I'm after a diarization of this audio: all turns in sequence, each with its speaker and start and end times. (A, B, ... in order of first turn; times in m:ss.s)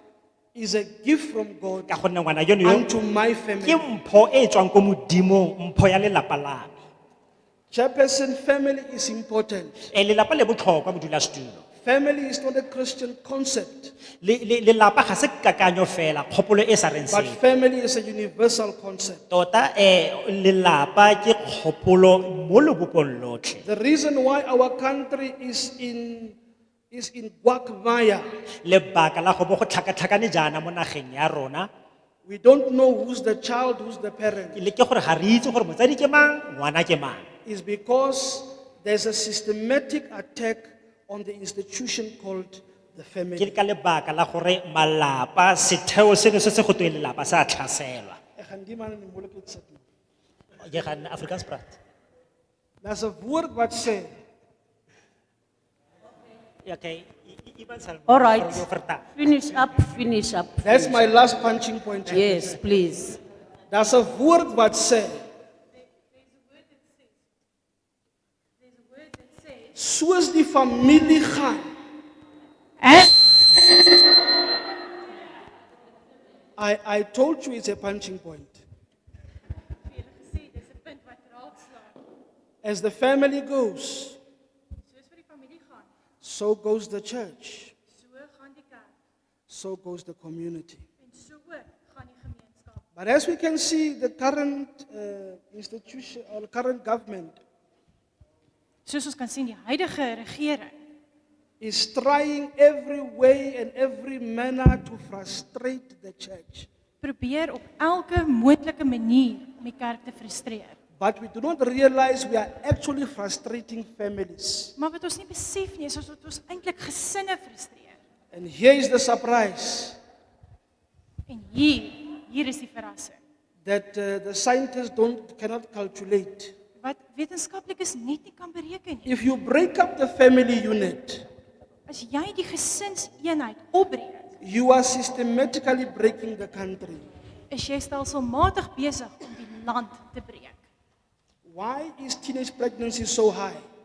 0:00.5-0:01.9 A
0:01.9-0:02.9 B
0:02.6-0:03.8 A
0:03.6-0:06.7 B
0:07.7-0:09.9 A
0:09.9-0:11.6 B
0:11.8-0:13.9 A
0:14.2-0:17.4 B
0:17.1-0:19.2 A
0:19.3-0:23.6 B
0:23.6-0:26.4 A
0:26.9-0:28.2 A
0:28.6-0:31.7 B
0:32.2-0:34.6 A
0:34.5-0:37.2 B
0:37.4-0:43.6 A
0:43.4-0:48.2 B
0:48.4-0:49.8 A
0:50.6-0:51.8 B
0:52.8-0:54.1 A
0:56.6-0:59.0 B
0:58.1-1:01.1 C
1:00.6-1:02.6 A
1:02.1-1:03.2 C
1:03.7-1:05.2 A
1:09.0-1:09.7 D
1:09.7-1:11.7 A
1:12.8-1:13.1 D
1:16.6-1:18.6 A
1:19.9-1:21.9 D
1:22.6-1:24.2 A
1:24.9-1:25.9 D
1:26.2-1:27.7 A
1:28.0-1:28.9 D
1:29.5-1:30.8 A
1:31.0-1:32.8 D
1:33.0-1:37.4 A
1:38.8-1:40.8 D
1:41.6-1:46.7 A
1:47.0-1:50.8 D
1:51.0-1:54.7 A
1:54.8-1:58.0 D
1:58.3-2:00.0 A
2:01.3-2:03.2 D
2:03.6-2:06.5 A
2:06.8-2:09.1 D
2:09.0-2:11.2 A
2:11.9-2:14.3 D
2:14.4-2:17.1 A
2:17.5-2:20.6 D
2:21.4-2:23.6 A